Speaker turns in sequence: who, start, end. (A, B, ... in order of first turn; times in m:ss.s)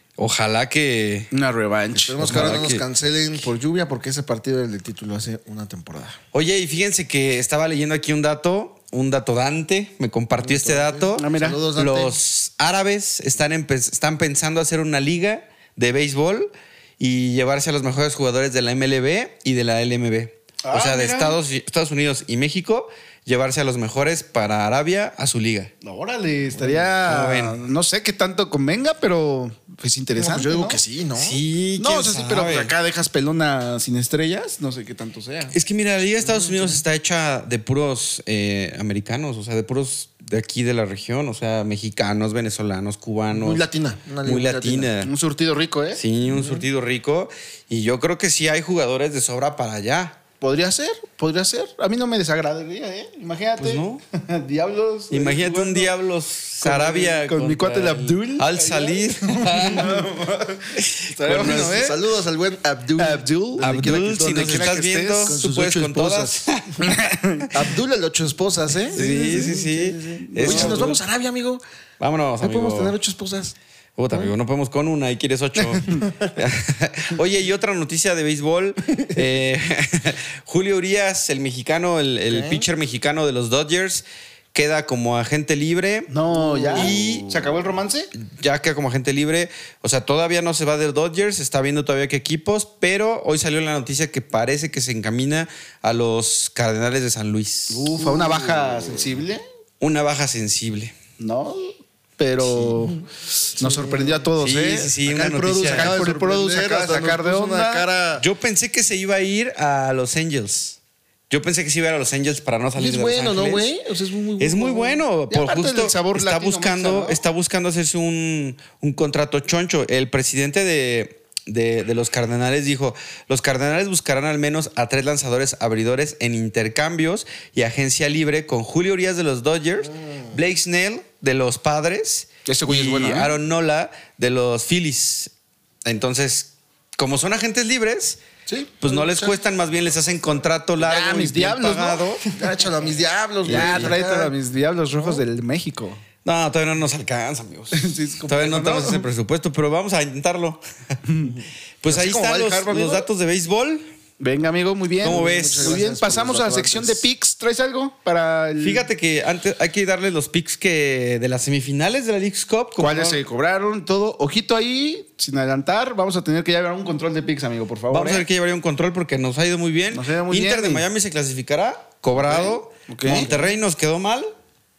0:00.2-0:01.3 A
0:01.3-0:02.7 B
0:02.0-0:06.2 C
0:02.2-0:02.8 A
0:06.3-0:25.7 A
0:10.4-0:12.1 C
0:11.2-0:11.6 B
0:20.6-0:21.4 B
0:25.8-0:30.8 B
0:26.7-0:27.6 A
0:30.2-0:31.4 C
0:31.2-0:32.7 A
0:31.8-0:35.6 B
0:35.5-0:43.6 A
0:36.2-0:36.8 B
0:43.3-0:44.9 C
0:44.2-0:45.1 A
0:45.0-0:46.0 B
0:46.0-0:50.2 A
0:46.3-0:46.7 C
0:50.4-0:56.0 B
0:53.6-0:54.0 A
0:55.1-1:00.1 A
0:56.6-1:00.6 B
1:00.7-1:01.9 A
1:01.1-1:06.4 C
1:01.2-1:02.0 B
1:03.0-1:05.5 B
1:03.6-1:06.9 A
1:06.8-1:07.5 B
1:07.5-1:11.6 C
1:08.9-1:11.0 B
1:08.9-1:11.0 A
1:12.0-1:13.0 A
1:12.4-1:13.6 C
1:14.0-1:26.1 A
1:15.6-1:16.0 B
1:22.3-1:22.6 C
1:26.1-1:28.1 B
1:26.3-1:27.0 C
1:26.7-1:27.4 A
1:28.2-1:38.0 A
1:37.7-1:39.4 B
1:38.0-1:39.1 C
1:39.8-1:41.0 A
1:41.2-1:43.0 B
1:43.6-1:45.0 B
1:43.6-1:44.3 C
1:44.4-1:46.0 A
1:45.0-1:48.2 C
1:45.5-1:47.9 B
1:48.2-1:50.8 A
1:51.3-1:53.7 A
1:52.8-1:55.0 C
1:54.4-2:15.3 A
1:55.3-1:57.2 B
2:09.8-2:10.3 C
2:12.4-2:13.4 B
2:15.8-2:18.2 A
2:18.5-2:19.3 C
2:18.8-2:22.2 A
2:20.8-2:22.3 B
2:22.3-2:24.3 C
2:23.4-2:26.0 B
2:23.4-2:24.0 A
2:26.2-2:30.6 A
2:27.7-2:29.1 B
2:31.1-2:31.3 B
2:31.8-2:33.9 A
2:31.9-2:33.1 C
2:34.2-2:38.9 B
2:35.0-2:35.8 A
2:35.0-2:37.0 C
2:38.6-2:43.2 A
2:42.8-2:48.3 B
2:47.9-2:54.3 A
2:49.9-2:50.9 B
2:52.2-2:53.3 B
2:53.1-2:53.4 C